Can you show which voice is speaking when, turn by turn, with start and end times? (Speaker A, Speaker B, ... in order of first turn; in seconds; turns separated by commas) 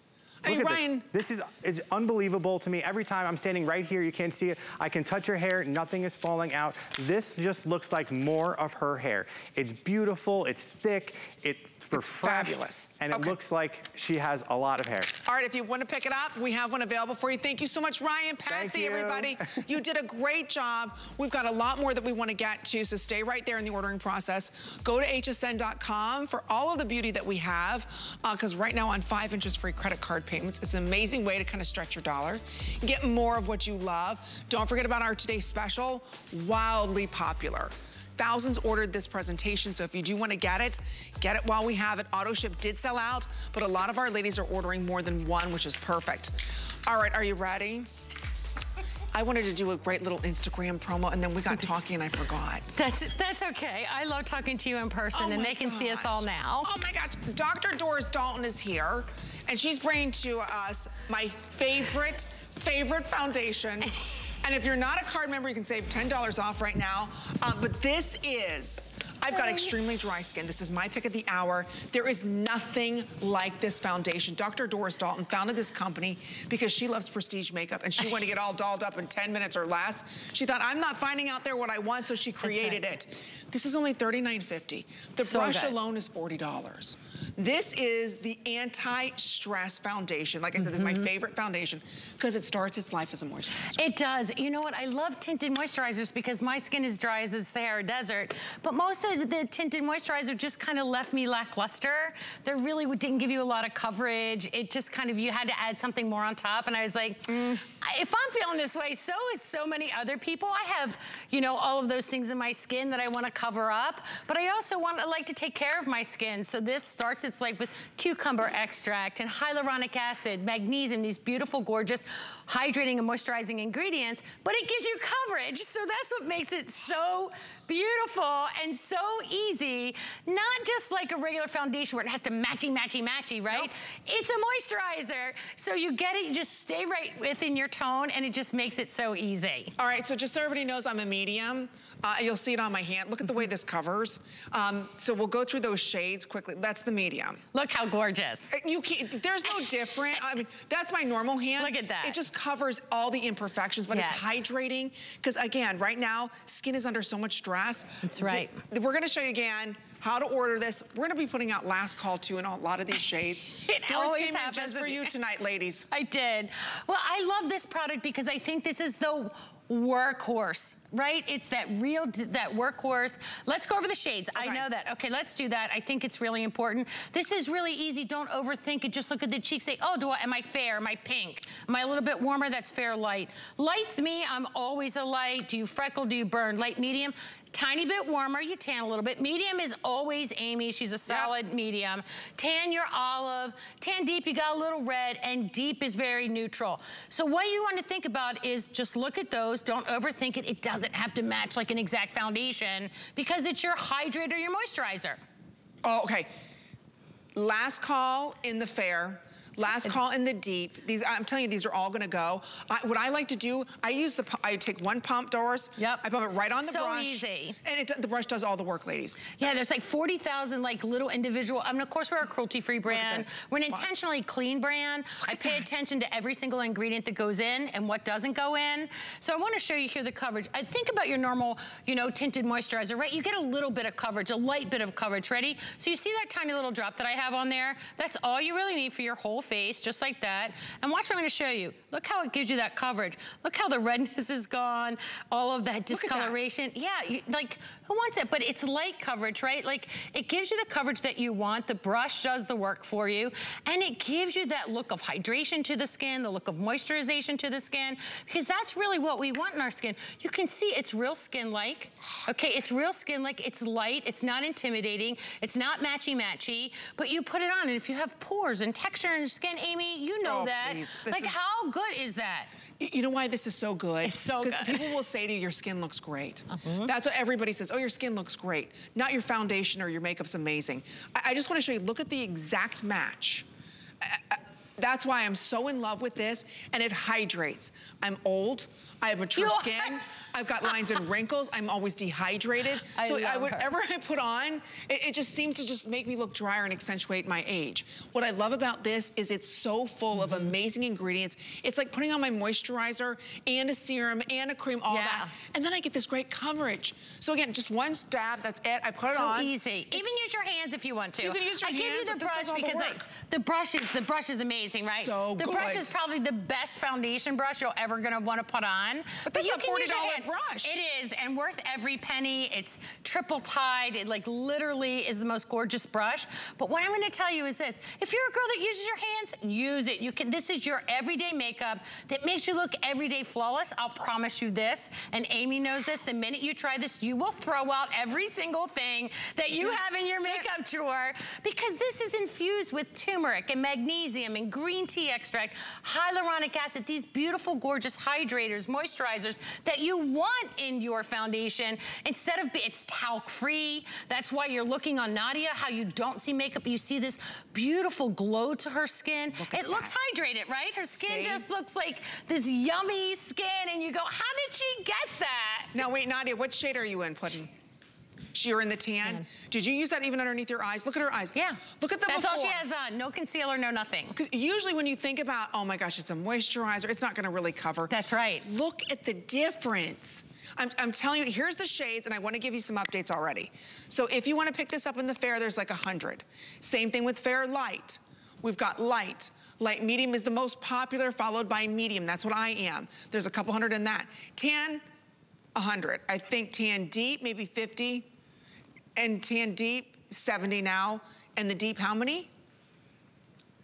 Speaker A: 0.4-1.1, Speaker B: 0.5-15.2, Speaker A: 11.9-13.4, Speaker A: 15.2-47.9, Speaker B: 18.5-19.6, Speaker A: 49.1-52.8, Speaker C: 52.7-56.7, Speaker A: 55.1-93.9, Speaker C: 69.4-69.7, Speaker C: 82.4-82.9, Speaker C: 85.2-85.8, Speaker C: 90.6-91.1, Speaker C: 93.8-139.7, Speaker A: 107.3-107.6, Speaker A: 139.8-147.4, Speaker C: 147.5-148.5, Speaker A: 148.5-165.9, Speaker C: 149.4-150.2, Speaker C: 151.6-152.2, Speaker C: 153.9-154.4, Speaker C: 158.0-158.6, Speaker C: 163.6-165.1, Speaker C: 165.9-205.2, Speaker A: 174.4-174.7, Speaker A: 191.1-191.3, Speaker A: 205.8-206.3, Speaker A: 207.3-219.4, Speaker C: 215.8-217.6, Speaker C: 219.3-272.5, Speaker A: 222.9-223.9, Speaker A: 225.2-225.7, Speaker A: 245.9-246.4, Speaker A: 270.2-271.5, Speaker A: 272.8-283.5, Speaker C: 274.0-274.9, Speaker C: 276.5-276.9, Speaker A: 284.0-310.2, Speaker C: 289.4-290.0, Speaker C: 290.6-291.0, Speaker C: 292.8-293.8, Speaker C: 300.2-300.6, Speaker C: 304.9-305.3, Speaker C: 309.1-365.9, Speaker A: 311.2-313.1, Speaker A: 314.8-315.9, Speaker A: 319.2-320.8, Speaker A: 339.6-340.5, Speaker A: 359.3-360.0, Speaker A: 360.9-361.5, Speaker A: 365.7-367.5, Speaker A: 368.3-372.6, Speaker C: 371.3-374.2, Speaker A: 374.1-394.8, Speaker C: 377.9-378.5, Speaker A: 395.6-398.1, Speaker A: 399.0-402.3